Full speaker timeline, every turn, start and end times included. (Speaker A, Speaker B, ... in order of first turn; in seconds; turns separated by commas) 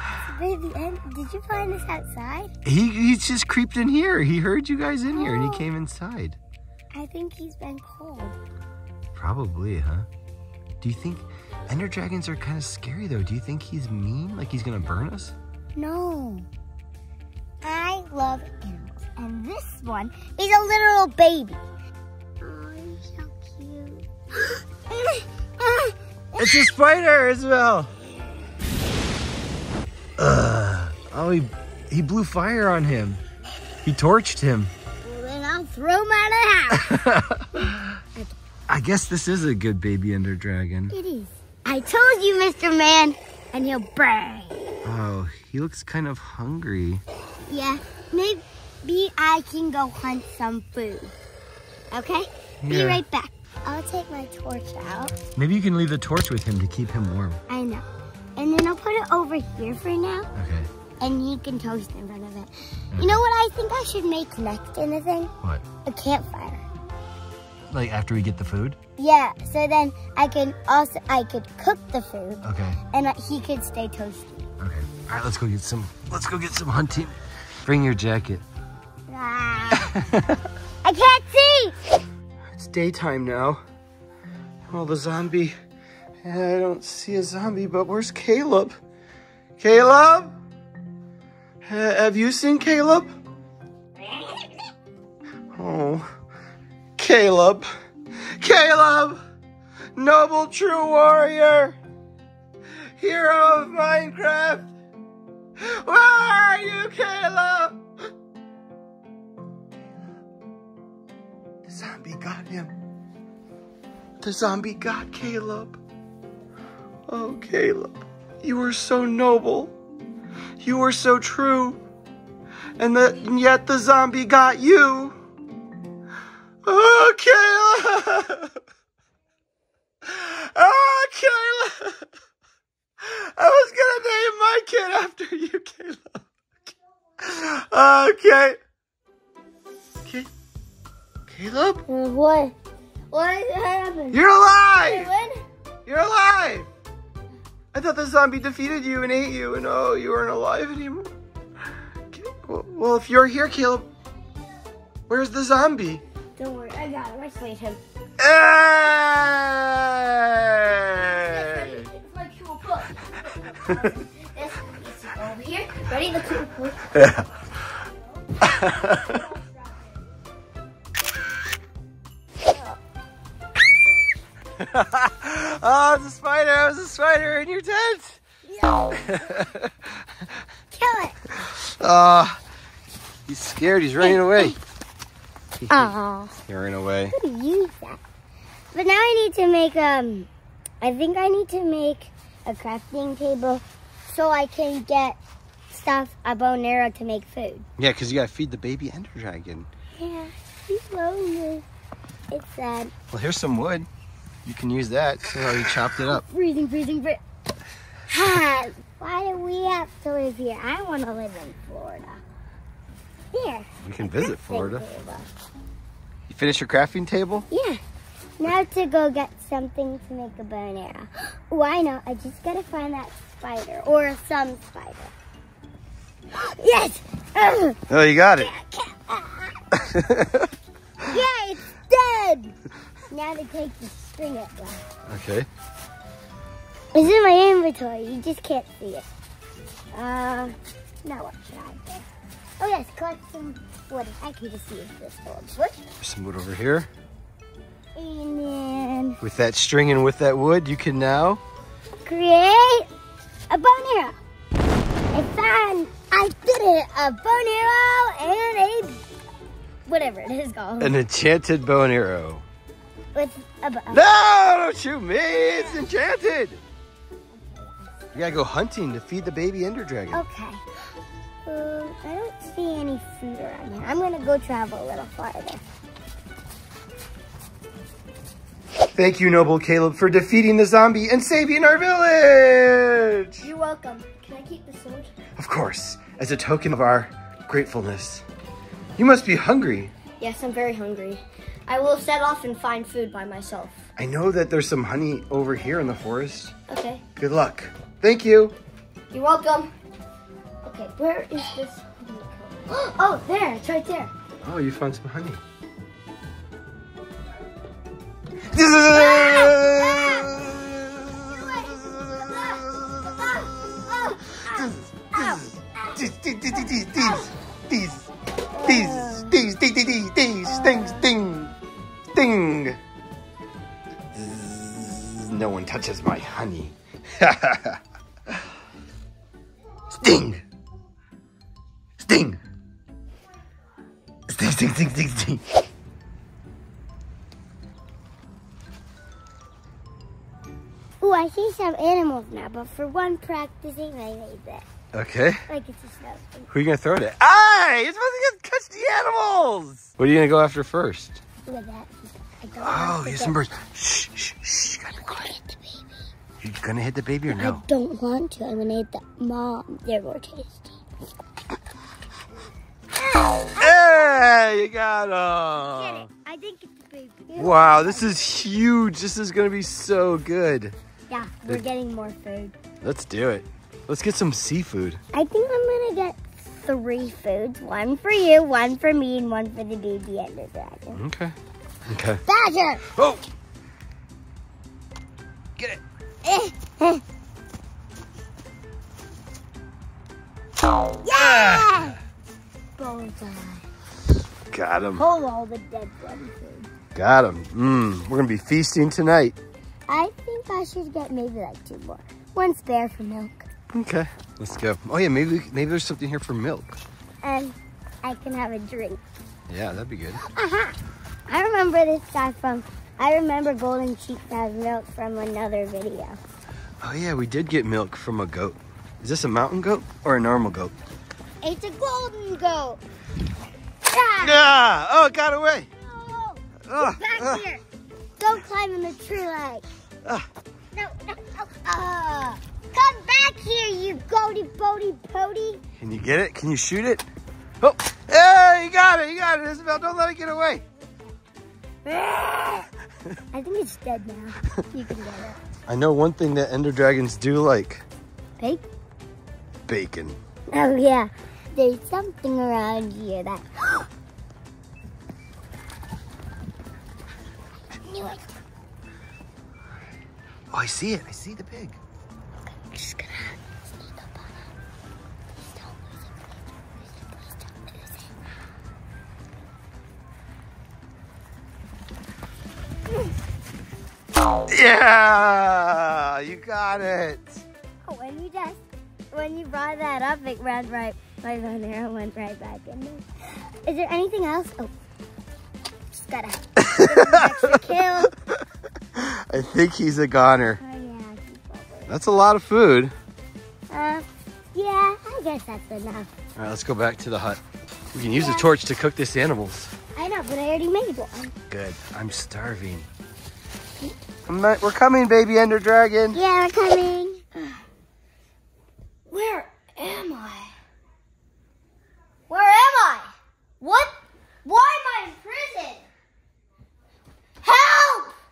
Speaker A: 0.2-2.5, Speaker B: 2.6-6.4, Speaker A: 5.1-5.7, Speaker A: 6.9-8.4, Speaker B: 9.1-10.1, Speaker B: 10.8-15.3, Speaker A: 15.8-16.5, Speaker A: 17.6-21.6, Speaker A: 22.4-24.1, Speaker A: 24.9-26.5, Speaker B: 26.4-27.9, Speaker B: 30.2-33.2, Speaker B: 33.8-34.7, Speaker A: 35.0-37.0, Speaker B: 36.7-37.8, Speaker B: 38.7-40.9, Speaker A: 40.9-44.7, Speaker B: 44.8-47.0, Speaker A: 47.5-51.1, Speaker A: 51.9-55.1, Speaker B: 52.6-53.0, Speaker B: 55.3-57.4, Speaker A: 57.5-60.3, Speaker B: 60.4-60.7, Speaker A: 61.0-66.6, Speaker B: 62.9-63.2, Speaker B: 67.7-68.8, Speaker A: 69.0-74.5, Speaker B: 72.4-72.8, Speaker B: 74.6-78.4, Speaker A: 79.1-80.1, Speaker B: 79.8-80.3, Speaker A: 80.8-81.8, Speaker B: 82.5-83.6, Speaker B: 84.7-85.5, Speaker B: 86.2-88.8, Speaker B: 89.6-90.3, Speaker B: 91.6-93.1, Speaker B: 95.5-96.1, Speaker B: 97.0-97.7, Speaker B: 98.4-99.2, Speaker B: 100.0-101.8, Speaker B: 103.0-104.7, Speaker B: 105.6-107.8, Speaker B: 111.6-112.7, Speaker B: 114.2-115.8, Speaker B: 117.1-119.7, Speaker B: 120.6-121.8, Speaker B: 122.8-125.2, Speaker B: 126.6-128.6, Speaker B: 130.0-132.1, Speaker B: 133.0-136.2, Speaker B: 137.2-138.6, Speaker B: 140.0-140.3, Speaker B: 141.3-141.8, Speaker A: 141.9-142.5, Speaker C: 143.1-144.2, Speaker B: 144.1-145.1, Speaker C: 144.8-145.4, Speaker B: 145.8-146.7, Speaker B: 147.7-151.1, Speaker B: 152.1-153.9, Speaker B: 155.1-156.0, Speaker C: 156.4-157.8, Speaker B: 158.2-161.9, Speaker C: 161.0-166.9, Speaker B: 166.9-167.3, Speaker B: 168.4-169.2, Speaker B: 174.6-178.2, Speaker A: 178.4-179.2, Speaker B: 179.1-180.0, Speaker A: 180.7-181.2, Speaker B: 181.4-182.4, Speaker B: 183.3-184.6, Speaker A: 184.0-184.6, Speaker B: 185.6-185.9, Speaker A: 185.7-186.4, Speaker B: 186.4-187.1, Speaker A: 187.1-188.0, Speaker A: 188.7-190.3, Speaker A: 190.8-195.2, Speaker A: 195.7-197.7, Speaker B: 197.8-199.7, Speaker A: 200.0-201.7, Speaker A: 202.3-202.9, Speaker B: 203.1-203.9, Speaker B: 204.4-206.2, Speaker A: 206.0-207.2, Speaker A: 208.1-212.2, Speaker A: 213.3-215.3, Speaker B: 213.8-214.8, Speaker B: 216.3-217.5, Speaker A: 217.5-217.8, Speaker A: 218.4-225.1, Speaker A: 226.3-227.8, Speaker B: 227.9-228.5, Speaker A: 228.4-229.9, Speaker B: 229.9-230.5, Speaker A: 231.1-232.6, Speaker A: 233.1-234.8, Speaker B: 235.1-235.5, Speaker A: 236.9-239.0, Speaker A: 239.9-242.1, Speaker A: 242.6-245.8, Speaker B: 246.0-246.9, Speaker A: 247.9-249.2, Speaker B: 249.2-251.4, Speaker A: 252.0-252.9, Speaker A: 253.5-254.2, Speaker A: 255.1-259.0, Speaker A: 259.9-261.0, Speaker B: 260.8-262.4, Speaker A: 263.1-264.0, Speaker B: 263.9-266.6, Speaker A: 267.3-268.1, Speaker B: 268.1-270.2, Speaker A: 270.1-270.6, Speaker A: 271.4-275.6, Speaker B: 278.9-283.5, Speaker C: 283.4-285.1, Speaker B: 285.4-288.2, Speaker B: 289.0-289.9, Speaker C: 290.2-293.8, Speaker B: 294.0-296.5, Speaker C: 296.7-297.0, Speaker B: 297.1-298.5, Speaker C: 299.1-299.7, Speaker C: 300.6-304.1, Speaker B: 304.4-305.4, Speaker B: 308.5-311.2, Speaker A: 308.9-310.1, Speaker B: 311.9-313.1, Speaker A: 313.4-316.0, Speaker B: 314.5-318.1, Speaker A: 318.5-319.3, Speaker B: 318.6-321.5, Speaker A: 320.4-321.0, Speaker B: 322.1-322.8, Speaker B: 324.1-328.4, Speaker B: 329.9-330.4, Speaker B: 332.0-332.4, Speaker B: 334.3-335.5, Speaker A: 341.0-344.7, Speaker B: 344.9-345.4, Speaker A: 345.5-346.5, Speaker B: 346.5-351.2, Speaker A: 351.4-353.4, Speaker B: 352.6-355.3, Speaker A: 355.0-356.1, Speaker B: 356.4-357.6, Speaker A: 357.3-360.8, Speaker A: 363.0-363.9, Speaker B: 363.5-366.1, Speaker A: 365.8-368.1, Speaker B: 367.3-370.8, Speaker A: 371.1-372.6, Speaker B: 372.8-375.0, Speaker A: 375.1-381.0, Speaker B: 380.9-382.2, Speaker A: 382.2-382.9, Speaker B: 382.9-383.2, Speaker A: 386.2-387.0, Speaker A: 391.0-392.0, Speaker B: 391.1-391.9, Speaker A: 392.8-393.6, Speaker B: 394.5-395.1, Speaker C: 395.0-395.3, Speaker A: 395.1-396.7, Speaker B: 396.9-399.4, Speaker A: 399.9-403.5, Speaker B: 403.7-406.8, Speaker A: 407.2-409.0, Speaker B: 409.5-410.2, Speaker A: 410.2-416.2, Speaker B: 416.8-420.7, Speaker A: 421.4-422.8, Speaker A: 423.9-424.5, Speaker B: 424.2-425.7, Speaker A: 425.8-427.6, Speaker B: 426.6-427.4, Speaker A: 428.2-429.6, Speaker A: 430.7-435.6, Speaker B: 435.8-437.1, Speaker B: 437.6-440.6, Speaker A: 443.3-445.4, Speaker B: 445.7-447.8, Speaker B: 449.7-450.2, Speaker A: 450.5-453.9, Speaker A: 457.8-458.3, Speaker B: 460.5-461.8, Speaker A: 462.5-464.3, Speaker A: 465.4-468.1, Speaker B: 474.5-477.4, Speaker A: 477.8-484.7, Speaker A: 485.9-488.1, Speaker B: 486.6-487.7, Speaker B: 488.9-490.6, Speaker A: 490.6-491.9, Speaker B: 491.9-492.9, Speaker A: 493.7-496.1, Speaker B: 496.4-497.4, Speaker B: 497.9-499.7, Speaker A: 498.1-498.4, Speaker A: 499.9-501.3, Speaker B: 501.5-502.9, Speaker B: 504.2-506.2, Speaker A: 506.1-507.2, Speaker C: 509.1-510.5, Speaker C: 512.3-515.8, Speaker C: 517.4-518.1